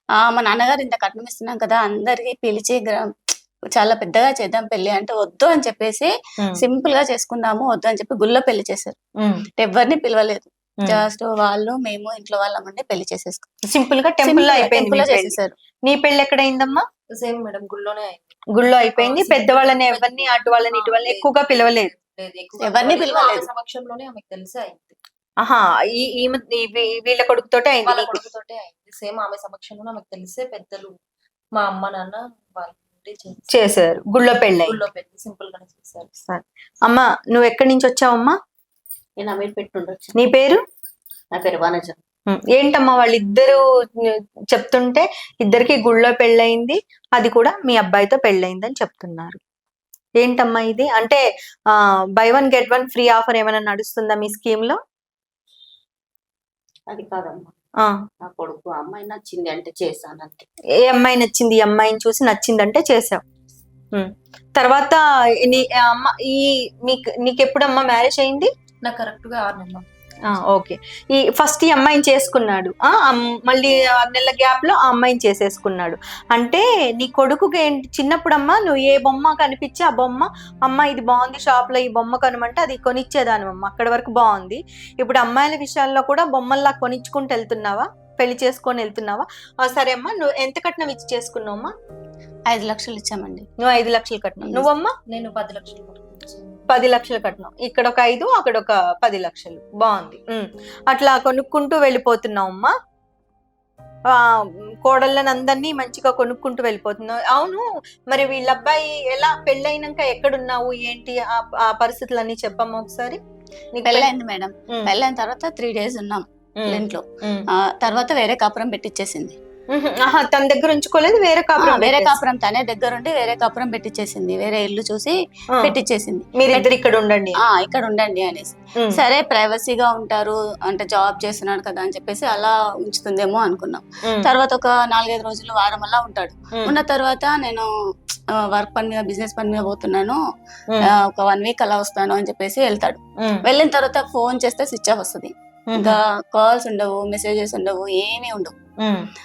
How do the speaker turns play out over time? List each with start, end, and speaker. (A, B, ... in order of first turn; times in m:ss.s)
0:00.2-0:09.0 A
0:09.2-0:09.5 B
0:09.6-0:13.5 A
0:13.7-0:16.8 B
0:14.2-0:15.6 A
0:17.2-0:18.4 C
0:18.5-0:21.9 B
0:19.0-0:25.0 C
0:22.6-0:23.5 A
0:25.4-0:28.2 B
0:27.9-0:31.0 C
0:31.6-0:33.6 C
0:33.5-0:34.8 B
0:34.6-0:36.1 C
0:36.2-0:38.4 B
0:39.2-0:40.2 D
0:40.2-0:40.6 B
0:41.3-0:42.0 D
0:42.3-0:49.4 B
0:50.2-0:54.8 B
0:56.9-0:57.5 D
0:58.2-1:00.5 D
1:00.8-1:03.2 B
1:03.9-1:08.5 B
1:08.8-1:09.8 C
1:10.3-1:31.7 B
1:32.5-1:33.5 A
1:33.6-1:34.9 B
1:34.4-1:34.7 A
1:35.1-1:36.6 C
1:36.7-1:42.7 B
1:44.1-1:53.2 B
1:53.8-1:54.1 B
1:53.8-1:59.4 A
1:56.6-1:57.5 B
1:59.7-2:02.2 B
2:01.6-2:06.7 A
2:06.4-2:07.4 B
2:07.4-2:17.7 A
2:18.3-2:20.2 A
2:20.8-2:28.5 A
2:25.7-2:26.0 B